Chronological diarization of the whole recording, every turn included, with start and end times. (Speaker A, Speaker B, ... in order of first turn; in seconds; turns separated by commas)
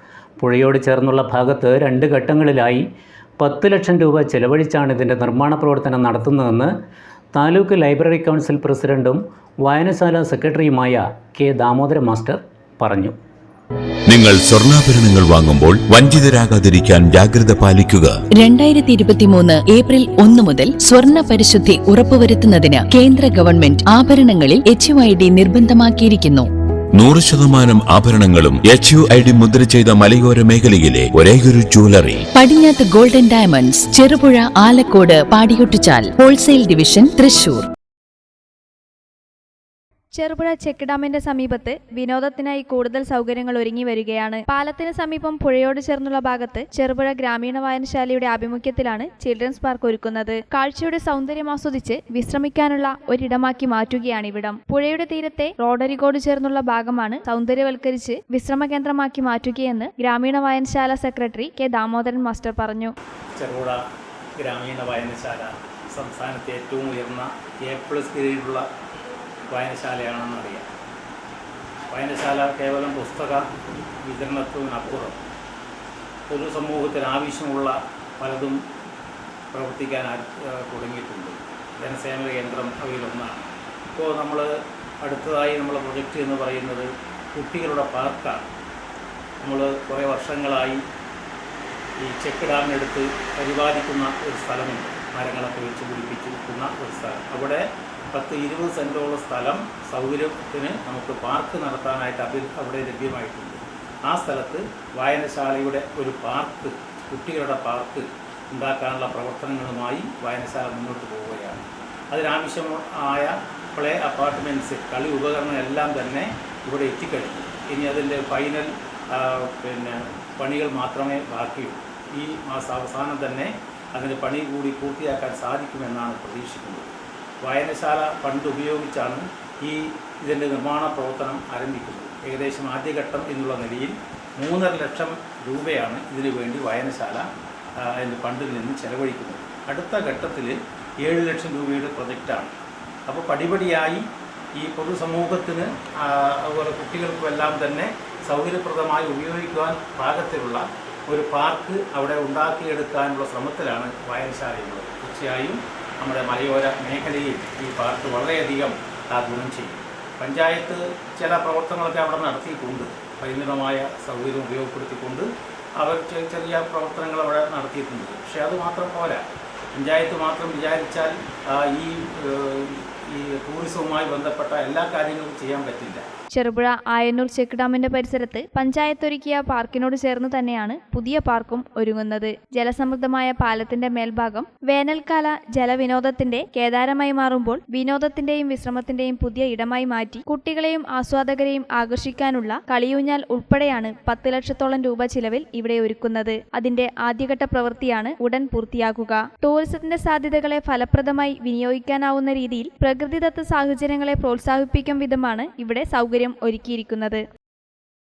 Speaker A: 0.4-2.8, Speaker A: 3.4-6.7, Speaker A: 7.3-13.2, Speaker B: 14.1-18.1, Speaker C: 18.4-26.5, Speaker B: 26.9-32.2, Speaker C: 32.4-37.6, Speaker D: 40.1-62.9, Speaker E: 63.3-63.8, Speaker E: 64.4-68.6, Speaker E: 69.5-70.7, Speaker E: 71.9-73.4, Speaker E: 74.0-75.2, Speaker E: 76.3-78.6, Speaker E: 79.5-84.5, Speaker E: 85.0-88.5, Speaker E: 89.4-90.8, Speaker E: 92.0-126.9, Speaker E: 127.4-137.3, Speaker E: 137.8-142.5, Speaker E: 143.1-144.0, Speaker E: 144.6-165.2, Speaker E: 165.8-176.0, Speaker D: 176.3-207.2